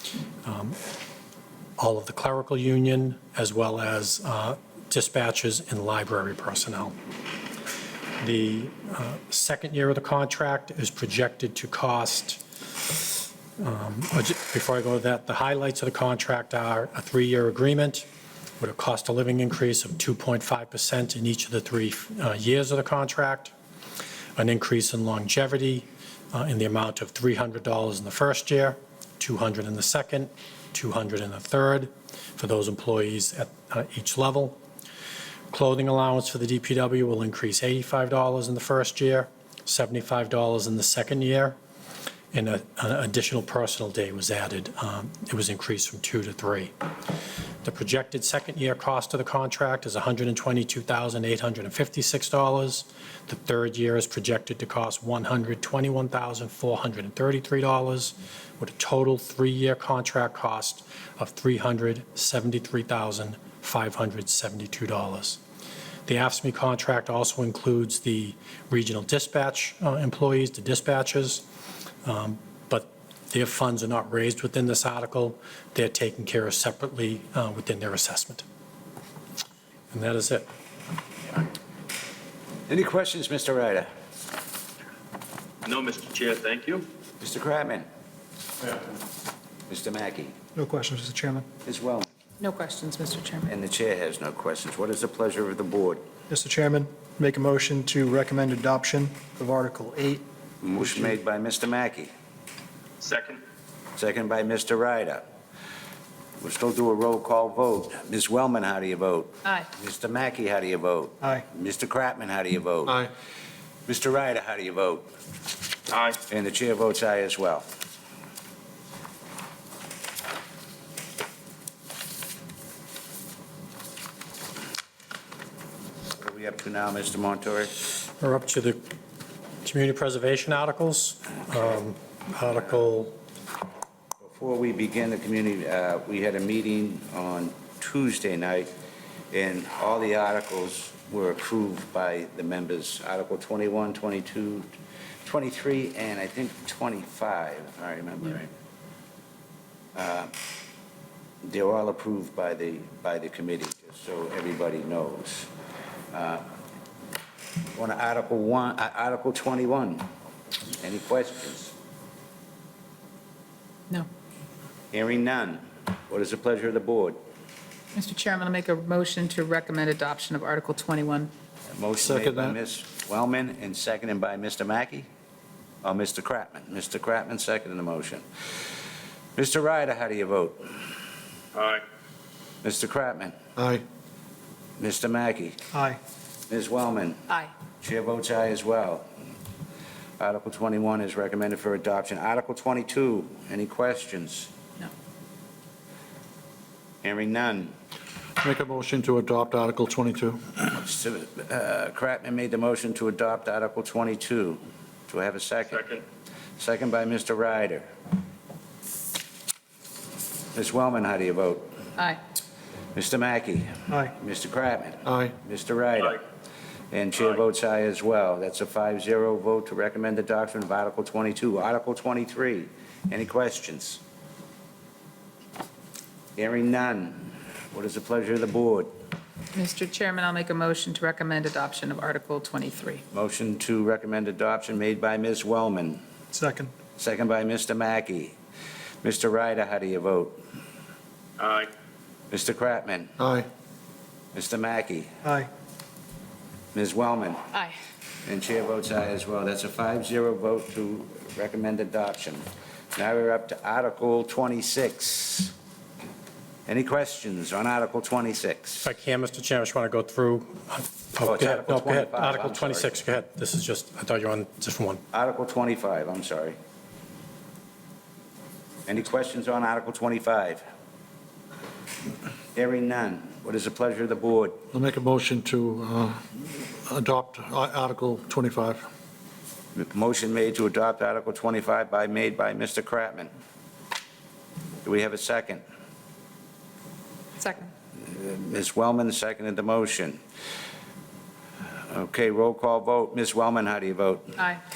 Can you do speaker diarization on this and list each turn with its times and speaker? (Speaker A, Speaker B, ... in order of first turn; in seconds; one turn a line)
Speaker A: 0.4-0.8
Speaker A: 1.8-7.0
Speaker A: 8.2-12.4
Speaker A: 13.6-18.1
Speaker A: 18.6-23.5
Speaker A: 24.4-34.6
Speaker A: 35.5-41.6
Speaker A: 42.3-46.7
Speaker A: 47.6-65.4
Speaker A: 66.0-71.5
Speaker A: 72.0-78.4
Speaker A: 79.9-80.5
Speaker B: 82.7-83.9
Speaker C: 85.6-86.9
Speaker B: 87.2-87.8
Speaker B: 89.7-90.3
Speaker D: 90.5-91.5
Speaker B: 91.6-92.1
Speaker E: 92.4-93.5
Speaker B: 93.5-96.0
Speaker D: 96.3-100.2
Speaker B: 100.6-102.1
Speaker C: 103.0-103.4
Speaker B: 104.0-105.2
Speaker B: 106.4-113.0
Speaker F: 112.8-113.1
Speaker B: 113.9-115.1
Speaker C: 115.9-116.2
Speaker B: 116.3-117.7
Speaker B: 126.2-127.7
Speaker A: 128.2-128.8
Speaker A: 129.6-133.1
Speaker B: 134.2-138.7
Speaker B: 139.3-144.7
Speaker B: 145.2-148.5
Speaker B: 149.9-150.3
Speaker B: 151.4-155.5
Speaker B: 156.1-156.4
Speaker B: 157.7-160.1
Speaker B: 160.8-161.7
Speaker B: 164.9-167.2
Speaker E: 167.9-171.3
Speaker B: 171.7-175.1
Speaker F: 172.0-172.6
Speaker B: 175.8-178.2
Speaker B: 179.3-180.7
Speaker C: 181.5-181.8
Speaker B: 182.6-183.4
Speaker F: 183.6-183.8
Speaker B: 184.8-185.6
Speaker D: 185.7-186.0
Speaker B: 186.5-187.3
Speaker B: 187.8-189.1
Speaker B: 190.2-194.5
Speaker B: 197.0-197.7
Speaker F: 198.4-200.6
Speaker B: 200.7-206.0
Speaker B: 206.6-207.8
Speaker B: 210.5-211.7
Speaker B: 212.9-216.2
Speaker F: 215.1-215.3
Speaker B: 216.9-224.0
Speaker B: 226.4-228.9
Speaker E: 229.5-233.0
Speaker B: 233.1-236.0
Speaker D: 236.3-236.7
Speaker B: 237.0-238.3
Speaker B: 239.0-240.4
Speaker C: 241.4-241.7
Speaker B: 242.3-243.1
Speaker F: 243.2-243.5
Speaker B: 244.3-245.1
Speaker B: 246.7-247.5
Speaker B: 248.2-255.5
Speaker B: 256.7-258.9
Speaker A: 258.8-265.0
Speaker B: 261.2-262.9
Speaker B: 265.1-266.6
Speaker B: 268.9-270.6
Speaker B: 272.5-274.6
Speaker F: 274.7-276.2
Speaker F: 276.9-278.8
Speaker B: 279.7-283.3
Speaker B: 284.8-285.6
Speaker E: 287.4-287.7
Speaker B: 288.0-290.2
Speaker B: 291.9-294.4